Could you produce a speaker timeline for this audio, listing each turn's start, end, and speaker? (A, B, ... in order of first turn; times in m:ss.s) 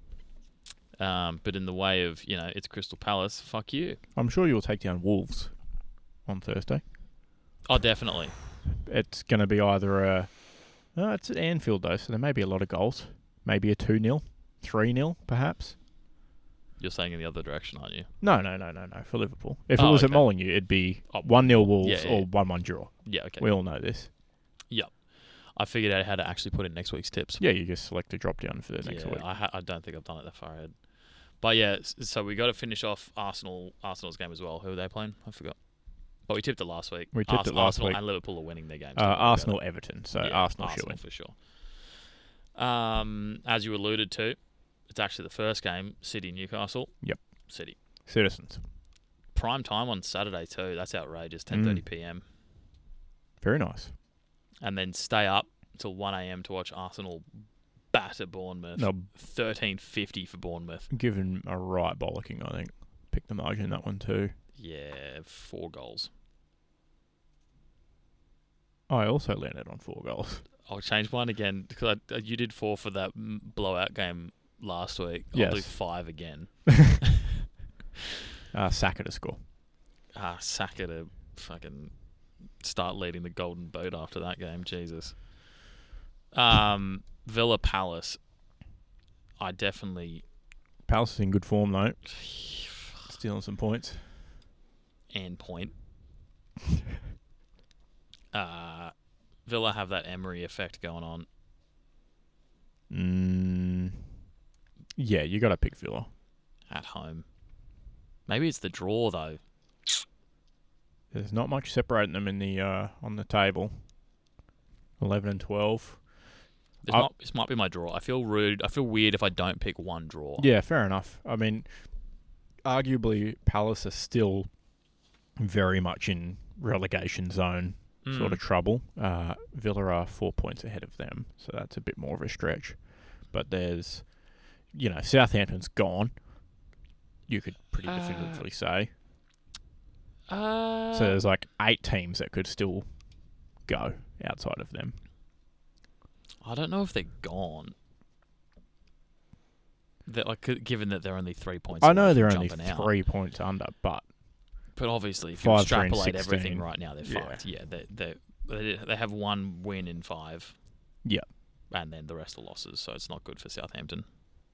0:01.0-0:04.0 A
0:04.1-0:06.8 B
0:07.6-0:08.4 A
0:08.8-0:15.8 B
0:16.8-0:18.1 A
0:18.2-0:24.1 B
0:19.8-0:23.5 A
0:24.7-0:27.4 A
0:27.4-0:29.2 B
0:28.8-0:42.0 A
0:37.1-0:41.0 B
0:42.5-0:47.0 A
0:47.5-0:47.8 A
0:47.8-0:48.6 B
0:49.3-0:52.2 A
0:51.5-0:51.8 B
0:53.4-0:53.9 B
0:54.6-1:00.9 A
0:58.8-0:59.1 B
1:00.9-1:04.3 B
1:04.6-1:06.1 A
1:08.9-1:10.4 B
1:10.6-1:17.0 A
1:15.3-1:16.4 B
1:18.5-1:19.4 B
1:20.1-1:25.7 A
1:26.3-1:28.2 A
1:29.4-1:30.2 A
1:30.8-1:32.2 B
1:33.0-1:34.1 B
1:35.1-1:35.7 A
1:38.3-1:41.3 A
1:42.9-1:44.0 B
1:44.9-1:46.1 B
1:46.7-1:47.3 A
1:48.2-1:49.9 A
1:51.1-1:53.8 B
1:55.0-1:56.3 B
1:56.8-2:00.5 A
2:00.4-2:04.7 B
2:05.4-2:16.6 B
2:08.0-2:08.4 A
2:17.3-2:18.9 B
2:17.8-2:18.4 A
2:20.3-2:21.2 A
2:20.9-2:25.0 B
2:26.4-2:27.7 A
2:30.0-2:32.9 A
2:31.8-2:34.1 B
2:34.7-2:40.6 A
2:35.4-2:37.4 B
2:41.7-2:44.1 A